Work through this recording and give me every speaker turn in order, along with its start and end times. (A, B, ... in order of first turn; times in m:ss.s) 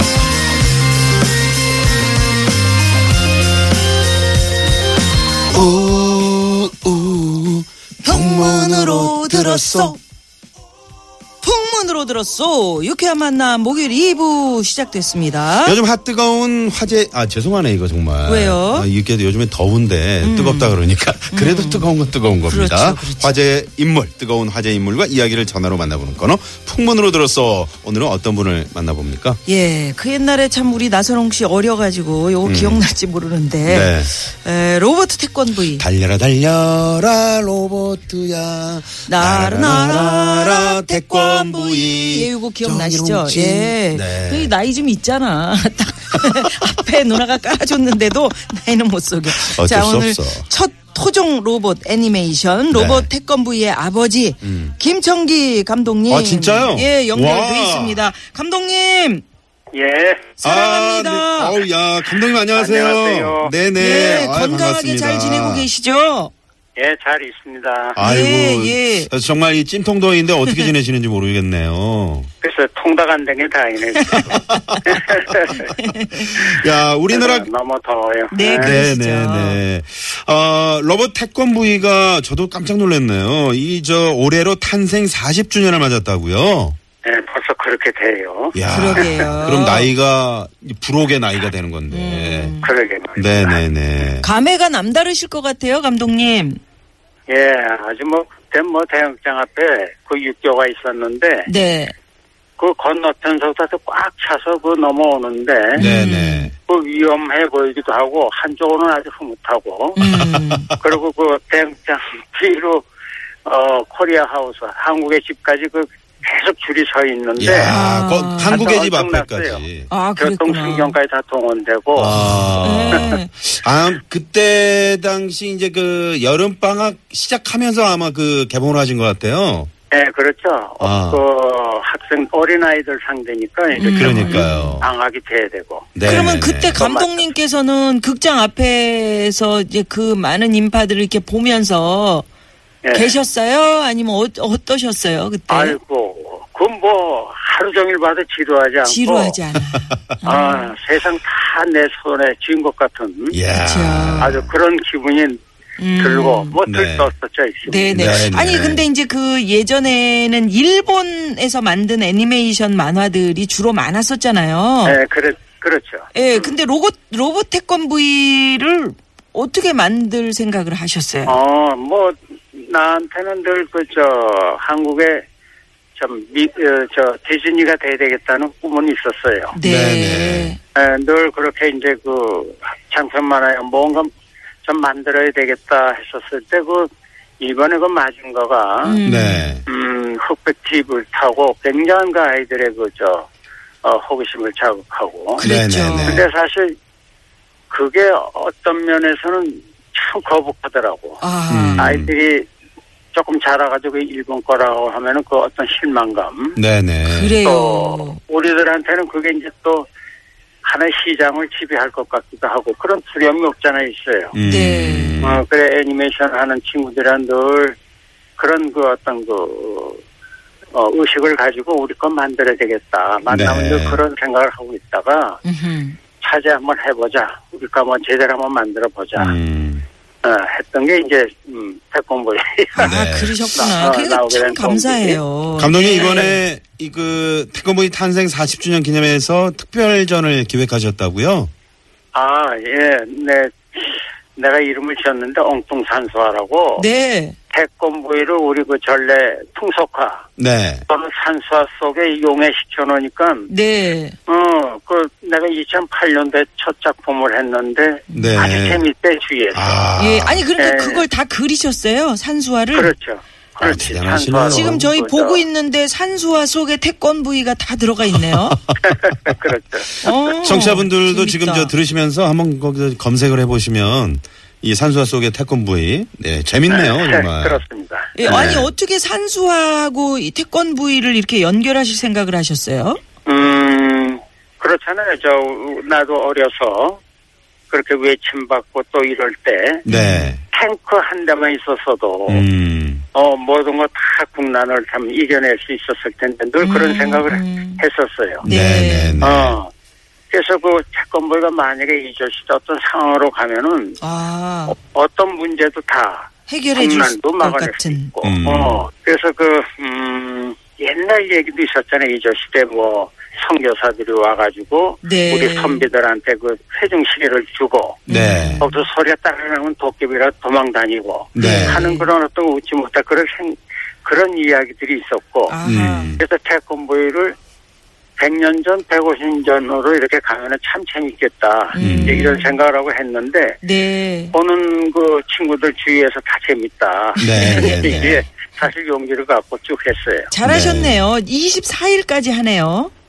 0:05.5-0:10.0 A
0:08.0-0:10.0 B
0:11.4-0:15.8 B
0:15.6-0:29.4 A
0:18.2-0:18.9 B
0:20.2-0:20.8 B
0:21.3-0:21.9 B
0:22.4-0:23.4 B
0:29.5-0:35.8 B
0:32.4-0:32.9 A
0:33.6-0:34.1 A
0:35.8-0:44.5 A
0:39.1-0:59.2 B
0:49.3-0:50.4 A
0:52.7-0:53.1 A
0:54.4-0:54.8 A
0:56.1-0:58.1 A
0:59.7-1:00.4 C
1:00.4-1:01.6 B
1:00.4-1:05.7 A
1:02.5-1:03.5 C
1:03.8-1:06.3 B
1:06.8-1:08.0 C
1:08.0-1:12.3 A
1:08.0-1:09.1 B
1:12.4-1:14.3 C
1:14.0-1:14.4 B
1:14.2-1:15.0 A
1:14.9-1:15.7 C
1:15.7-1:16.4 B
1:16.2-1:17.5 A
1:17.1-1:18.7 C
1:18.3-1:19.6 B
1:18.4-1:26.8 A
1:27.0-1:28.6 C
1:28.5-1:32.6 A
1:28.7-1:29.9 B
1:31.9-1:32.7 B
1:32.6-1:33.6 C
1:33.2-1:34.3 A
1:34.2-1:36.6 B
1:37.3-1:41.5 C
1:41.5-1:41.9 B
1:42.6-1:45.8 C
1:45.8-1:46.5 B
1:45.8-1:46.6 A
1:46.7-1:50.0 C
1:50.0-1:50.7 B
1:50.0-1:50.8 A
1:50.8-1:52.8 C
1:53.4-1:57.8 C
1:57.4-1:59.9 A
1:57.7-1:58.7 B
1:58.4-1:59.6 C
1:59.9-2:01.0 B
2:00.2-2:02.2 C
2:01.9-2:09.7 A
2:02.2-2:03.3 B
2:09.9-2:17.3 C
2:10.8-2:11.2 A
2:13.7-2:14.8 B
2:13.9-2:14.9 A
2:16.0-2:16.8 A
2:16.0-2:22.3 B
2:22.8-2:23.2 C
2:22.9-2:25.8 B
2:25.5-2:29.3 C
2:28.8-2:30.7 B
2:30.2-2:33.4 C
2:33.3-2:34.5 A
2:33.6-2:34.4 B
2:34.2-2:35.4 C
2:35.8-2:36.6 B
2:36.0-2:38.3 C
2:36.7-2:37.1 A
2:37.7-2:45.0 B
2:37.9-2:38.8 A
2:44.8-2:46.5 C
2:46.1-2:51.4 B
2:51.3-2:55.2 C
2:56.0-2:59.5 C
2:59.5-3:00.6 B
2:59.6-3:00.6 A
3:00.8-3:04.1 C
3:04.6-3:06.9 C
3:07.4-3:09.0 C
3:08.8-3:09.6 B
3:09.0-3:09.6 A
3:09.7-3:13.3 C
3:13.8-3:15.4 C
3:15.4-3:16.2 B
3:15.4-3:16.3 A
3:16.1-3:16.8 C
3:17.7-3:21.2 C
3:21.2-3:21.9 B
3:21.5-3:22.1 A
3:21.8-3:22.5 C
3:23.1-3:26.6 C
3:26.6-3:27.4 A
3:27.0-3:28.2 B
3:27.4-3:29.9 C
3:30.6-3:34.4 C
3:34.3-3:35.4 A
3:34.4-3:35.2 B
3:35.2-3:37.8 C
3:38.4-3:40.0 C
3:40.7-3:45.4 C
3:43.3-3:44.0 A
3:45.4-3:46.0 B
3:46.2-3:49.4 C
3:49.2-3:49.9 A
3:50.2-3:52.9 C
3:52.8-3:53.4 A
3:52.8-3:56.4 B
3:53.6-3:55.2 C
3:55.6-4:01.5 A
3:55.8-3:56.3 C
4:02.1-4:06.9 C
4:06.8-4:07.4 B
4:07.5-4:10.3 C
4:10.4-4:10.8 A
4:10.9-4:13.5 C
4:13.5-4:14.2 B
4:14.3-4:19.8 C
4:18.1-4:18.5 B
4:18.1-4:18.8 A
4:19.5-4:20.5 A
4:20.0-4:22.9 B
4:20.6-4:21.0 C
4:22.7-4:25.5 C
4:23.6-4:24.9 A
4:24.5-4:28.6 B
4:28.1-4:28.8 A
4:28.9-4:30.1 C
4:30.0-4:31.7 B
4:30.4-4:37.6 A
4:36.7-4:38.5 C
4:38.2-4:43.0 B
4:38.2-4:38.7 A
4:43.3-4:47.0 C
4:47.7-4:49.8 C
4:49.9-4:50.4 B
4:49.9-4:50.4 A
4:50.5-4:52.4 C
4:52.3-4:53.0 A
4:53.1-4:58.4 C
4:56.6-4:57.8 B
4:58.4-4:59.2 B
4:58.4-4:59.6 A
4:59.2-4:59.7 C
5:00.3-5:04.0 C
5:04.0-5:04.8 B
5:04.7-5:18.0 C
5:06.5-5:08.1 B
5:08.2-5:08.8 A
5:15.0-5:15.9 B
5:18.1-5:18.7 B
5:18.1-5:18.7 A
5:18.6-5:25.6 C
5:21.4-5:21.8 A
5:21.4-5:22.1 B
5:25.5-5:26.2 B
5:25.6-5:26.2 A
5:26.2-5:27.4 C
5:28.2-5:33.6 C
5:31.7-5:32.6 B
5:31.8-5:32.2 A
5:33.6-5:34.3 B
5:34.3-5:40.3 C
5:37.2-5:38.0 B
5:37.2-5:38.2 A
5:40.3-5:42.9 B
5:40.4-5:41.1 A